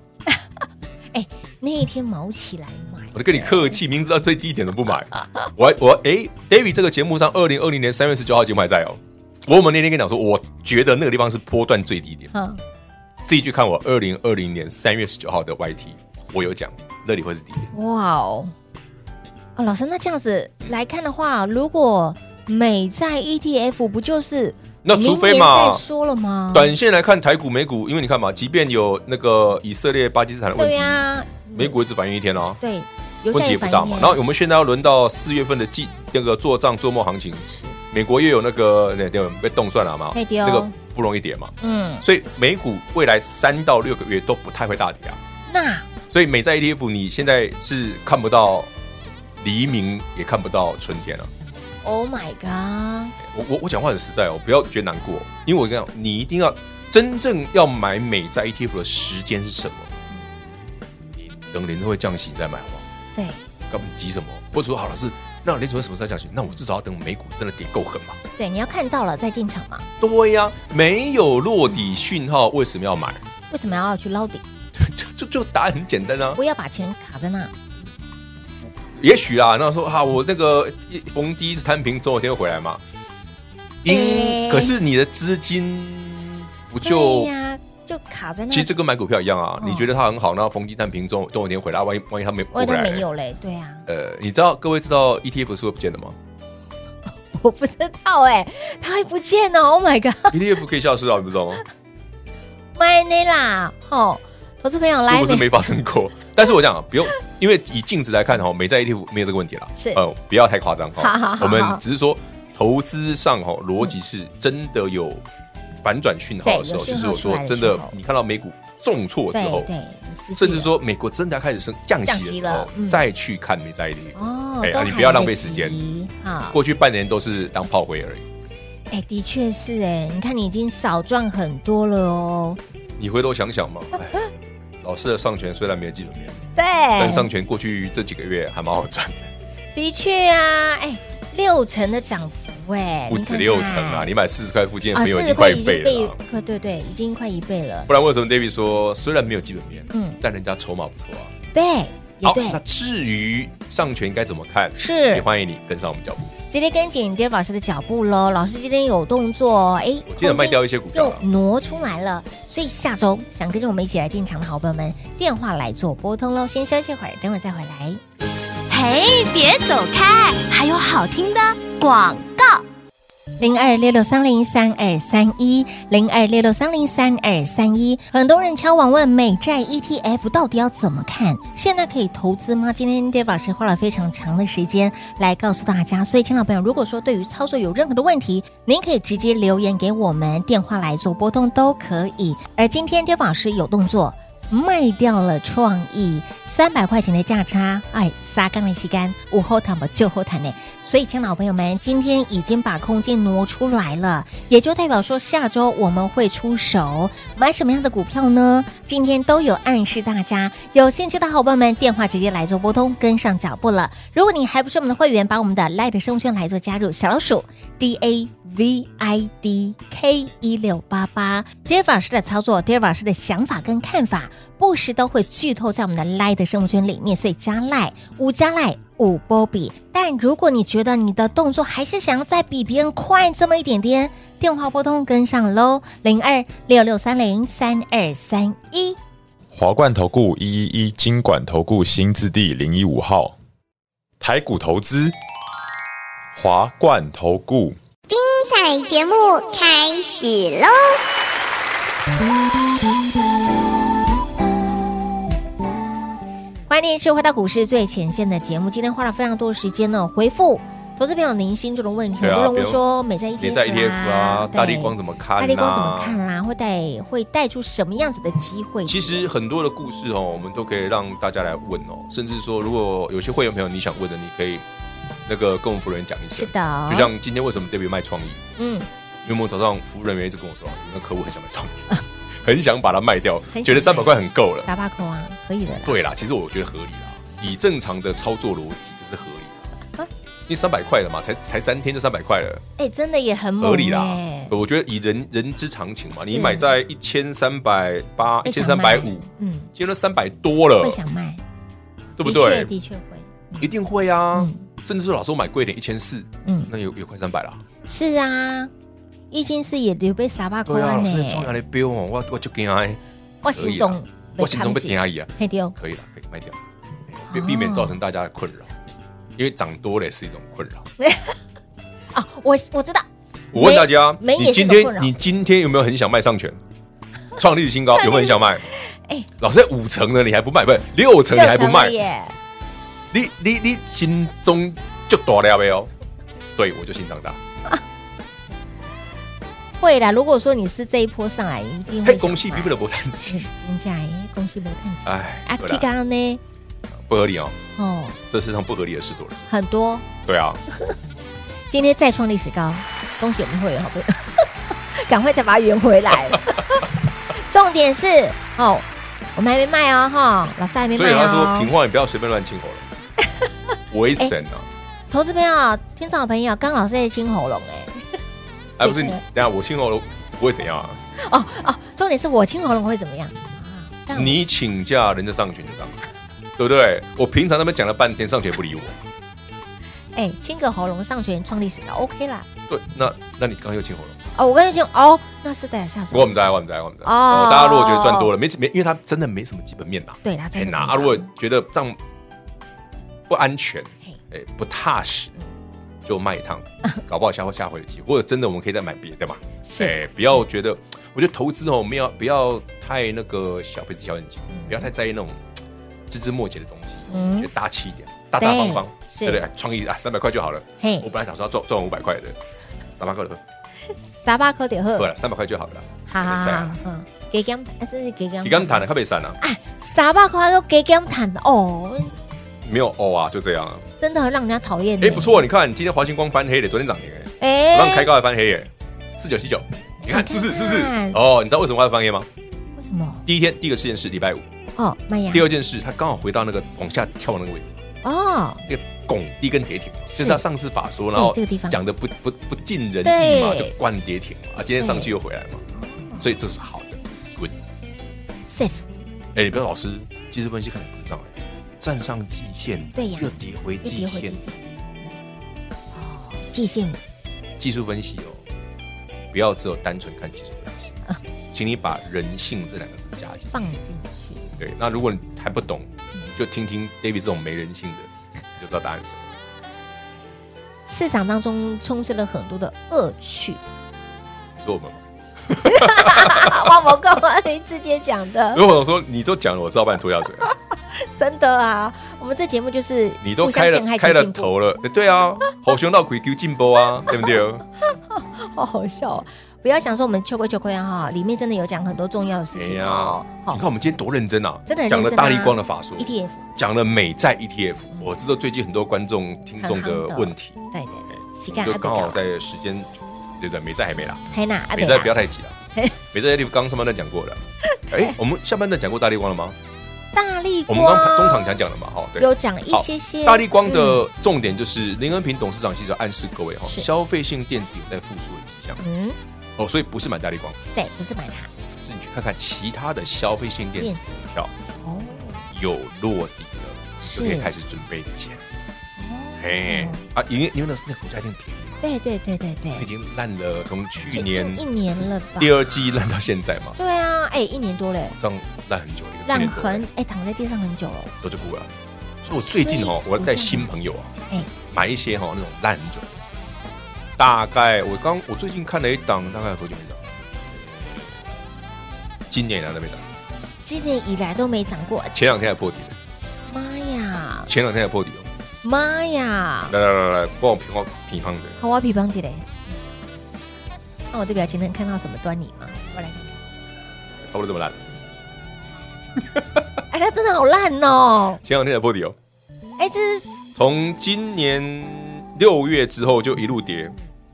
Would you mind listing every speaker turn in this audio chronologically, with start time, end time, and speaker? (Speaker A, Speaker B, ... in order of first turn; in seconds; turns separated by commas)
Speaker A: 1.1-3.8, Speaker B: 3.1-12.3, Speaker A: 12.3-12.6, Speaker B: 13.2-17.7, Speaker A: 17.7-18.5, Speaker A: 19.6-26.7, Speaker B: 24.8-25.8, Speaker B: 26.5-31.0, Speaker A: 30.6-31.8, Speaker B: 31.5-32.6, Speaker A: 32.6-34.2, Speaker B: 33.3-45.2, Speaker A: 37.5-37.8, Speaker A: 40.1-40.7, Speaker A: 41.6-42.0, Speaker A: 45.5-45.9, Speaker B: 46.1-48.7, Speaker B: 49.4-51.3, Speaker A: 51.8-53.1, Speaker B: 53.2-59.9, Speaker B: 61.1-62.8, Speaker A: 63.1-63.4, Speaker B: 63.7-68.2, Speaker A: 68.4-69.8, Speaker B: 70.0-73.2, Speaker A: 73.5-74.4, Speaker B: 74.7-76.4, Speaker A: 76.3-77.5, Speaker B: 78.6-82.8, Speaker B: 83.8-87.3, Speaker A: 83.8-84.7, Speaker A: 86.8-88.7, Speaker B: 88.5-93.0, Speaker A: 89.6-89.9, Speaker A: 92.5-93.8, Speaker B: 93.9-96.2, Speaker A: 97.3-100.4, Speaker B: 100.3-101.6, Speaker A: 102.8-105.5, Speaker B: 105.1-115.2, Speaker A: 109.8-110.0, Speaker A: 111.0-111.8, Speaker B: 115.8-119.7, Speaker A: 116.4-117.9, Speaker A: 119.3-120.7, Speaker B: 120.3-125.8, Speaker A: 122.0-123.0, Speaker A: 124.2-126.6, Speaker B: 126.5-128.2, Speaker A: 128.9-132.6, Speaker B: 133.0-134.3, Speaker B: 134.8-136.4, Speaker A: 136.6-137.3, Speaker B: 137.0-139.3, Speaker A: 139.7-144.1, Speaker B: 143.1-146.2, Speaker A: 144.9-147.9, Speaker B: 147.9-151.3, Speaker A: 149.9-150.2, Speaker A: 151.5-152.6, Speaker B: 152.2-156.3, Speaker A: 154.8-155.2, Speaker A: 156.5-168.0, Speaker B: 160.1-161.2, Speaker C: 168.7-172.6, Speaker A: 173.4-239.0, Speaker D: 239.5-243.3, Speaker D: 244.2-245.1, Speaker D: 246.3-247.8, Speaker E: 248.1-250.9, Speaker A: 256.7-269.3, Speaker B: 262.2-262.8, Speaker B: 263.4-266.2, Speaker B: 268.9-274.6, Speaker B: 275.2-278.4, Speaker A: 276.3-277.1, Speaker A: 278.6-278.9, Speaker B: 279.2-284.7, Speaker A: 283.5-286.0, Speaker B: 285.8-289.7, Speaker B: 290.5-292.6, Speaker A: 292.8-294.5, Speaker B: 293.6-301.0, Speaker A: 296.2-296.7, Speaker A: 298.4-299.7, Speaker A: 300.8-301.4, Speaker B: 302.2-302.7, Speaker A: 302.2-303.7, Speaker B: 303.6-307.6, Speaker A: 304.3-304.6, Speaker A: 306.4-306.7, Speaker A: 307.9-308.7, Speaker A: 309.3-311.5, Speaker B: 310.6-313.0, Speaker A: 313.4-315.7, Speaker B: 313.5-318.7, Speaker A: 317.3-318.0, Speaker B: 319.4-320.9, Speaker A: 321.0-321.3, Speaker A: 322.1-325.1, Speaker B: 323.5-326.6, Speaker B: 327.4-328.6, Speaker A: 328.0-328.4, Speaker A: 328.9-329.3, Speaker B: 329.4-331.9, Speaker A: 331.3-332.3, Speaker B: 333.1-335.9, Speaker B: 336.6-337.4, Speaker A: 339.8-346.4, Speaker B: 342.0-343.5, Speaker B: 345.1-345.9, Speaker B: 346.9-347.6, Speaker A: 347.8-348.2, Speaker B: 348.3-349.5, Speaker A: 349.5-350.1, Speaker B: 350.2-350.6, Speaker A: 351.7-361.7, Speaker B: 360.9-362.9, Speaker B: 363.9-364.7, Speaker A: 365.1-368.0, Speaker B: 368.8-371.0, Speaker A: 368.8-369.2, Speaker A: 371.2-374.4, Speaker B: 374.1-375.9, Speaker B: 376.6-379.0, Speaker A: 380.1-382.4, Speaker B: 382.7-384.2, Speaker A: 384.4-386.4, Speaker B: 386.1-392.0, Speaker A: 387.0-388.3, Speaker A: 390.2-391.3, Speaker B: 393.3-395.3, Speaker B: 396.0-405.4, Speaker A: 399.6-399.9, Speaker A: 404.5-404.9, Speaker B: 406.1-412.4, Speaker A: 407.1-407.5, Speaker A: 408.4-409.4, Speaker A: 410.8-411.1, Speaker B: 412.9-413.4, Speaker A: 414.1-415.1, Speaker B: 414.9-416.8, Speaker A: 416.1-418.8, Speaker B: 418.4-419.4, Speaker A: 419.4-422.1, Speaker B: 422.6-423.8, Speaker A: 424.0-425.4, Speaker B: 425.0-432.3, Speaker A: 427.4-428.1, Speaker A: 430.1-431.2, Speaker A: 432.8-433.2, Speaker B: 433.2-434.4, Speaker A: 434.8-435.5, Speaker B: 435.3-437.8, Speaker A: 438.0-438.6, Speaker B: 438.7-445.6, Speaker A: 440.1-440.4, Speaker A: 441.1-441.8, Speaker A: 443.0-443.7, Speaker A: 444.8-445.1, Speaker A: 445.7-446.3, Speaker B: 446.2-447.5, Speaker A: 448.4-448.9, Speaker B: 449.3-454.4, Speaker A: 452.9-453.3, Speaker A: 453.8-454.6, Speaker A: 455.9-457.0, Speaker B: 457.6-458.4, Speaker B: 459.3-460.9, Speaker B: 461.5-463.6, Speaker A: 463.5-464.5, Speaker B: 464.6-469.2, Speaker A: 470.9-473.6, Speaker B: 474.6-476.9, Speaker A: 475.6-478.6, Speaker B: 478.5-480.5, Speaker A: 480.4-484.5, Speaker B: 483.2-487.6, Speaker A: 487.1-487.3, Speaker A: 487.8-493.6, Speaker B: 492.5-500.6, Speaker A: 494.7-496.4, Speaker A: 499.6-502.2, Speaker B: 501.5-505.6, Speaker A: 504.3-505.2, Speaker B: 506.1-509.6, Speaker A: 507.9-508.1, Speaker A: 510.1-511.5, Speaker B: 510.7-518.8, Speaker A: 512.2-514.0, Speaker A: 518.8-519.2, Speaker B: 519.6-520.6, Speaker A: 520.7-521.5, Speaker B: 521.8-524.5, Speaker A: 523.8-524.0, Speaker A: 524.8-525.4, Speaker B: 525.5-528.4, Speaker A: 527.0-527.5, Speaker A: 529.0-530.0, Speaker B: 529.4-531.8, Speaker A: 531.8-532.9, Speaker B: 532.7-534.6, Speaker A: 534.1-536.0, Speaker B: 535.4-536.8, Speaker A: 536.8-538.1, Speaker B: 538.2-539.9, Speaker A: 539.2-541.1, Speaker B: 541.2-544.1, Speaker A: 542.3-543.7, Speaker B: 544.7-546.2, Speaker B: 547.2-551.2, Speaker B: 552.3-553.0, Speaker A: 553.4-555.1, Speaker B: 555.1-556.0, Speaker A: 556.5-557.5, Speaker B: 557.5-558.3, Speaker A: 558.6-559.7, Speaker B: 559.7-561.6, Speaker A: 561.6-562.7, Speaker A: 564.1-566.4, Speaker B: 567.2-567.8, Speaker B: 569.2-569.8, Speaker A: 569.9-571.4, Speaker B: 571.4-572.1, Speaker A: 572.8-573.2, Speaker B: 573.5-577.0